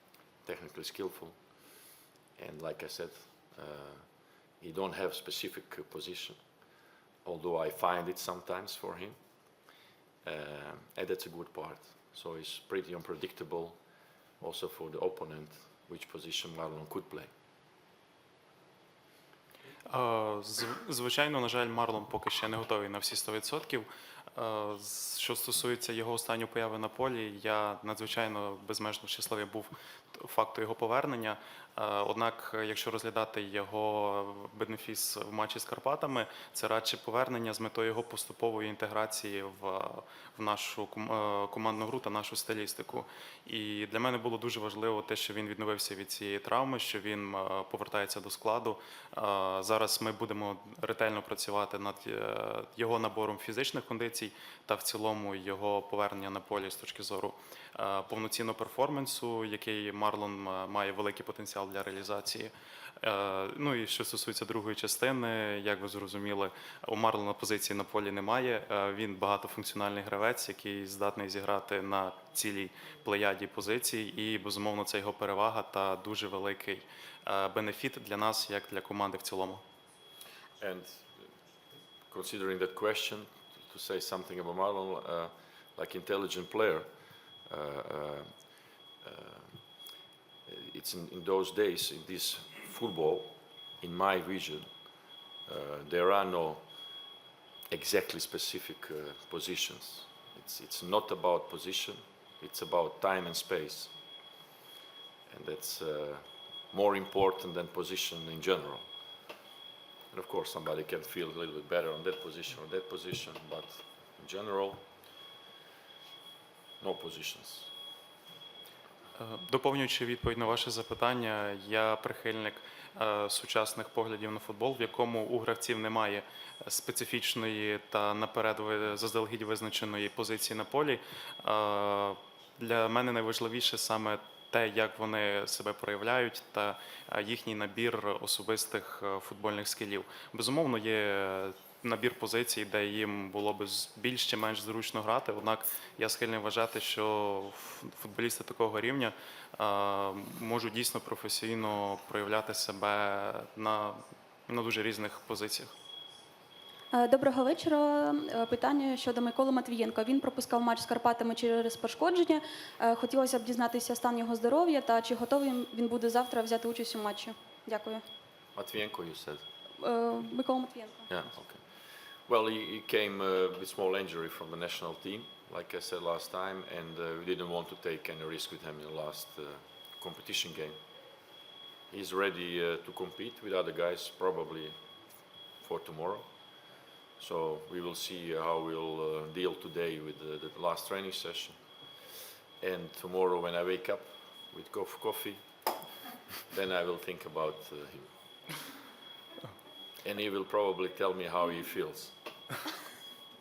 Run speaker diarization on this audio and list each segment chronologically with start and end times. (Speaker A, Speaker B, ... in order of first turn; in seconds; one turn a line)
Speaker A: 0.4-6.4
Speaker A: 7.2-9.7
Speaker A: 10.2-13.8
Speaker A: 14.4-17.3
Speaker B: 19.9-79.6
Speaker A: 80.6-81.3
Speaker A: 82.1-89.6
Speaker A: 90.5-94.9
Speaker A: 95.5-96.7
Speaker A: 97.7-103.9
Speaker A: 105.3-108.9
Speaker A: 110.1-114.8
Speaker A: 116.8-117.7
Speaker B: 119.2-155.7
Speaker C: 156.9-168.0
Speaker A: 168.5-169.4
Speaker C: 169.8-171.1
Speaker A: 171.1-180.8
Speaker A: 181.9-184.8
Speaker A: 185.6-186.3
Speaker A: 187.2-191.6
Speaker A: 192.6-195.4
Speaker A: 196.5-198.1
Speaker A: 200.0-202.2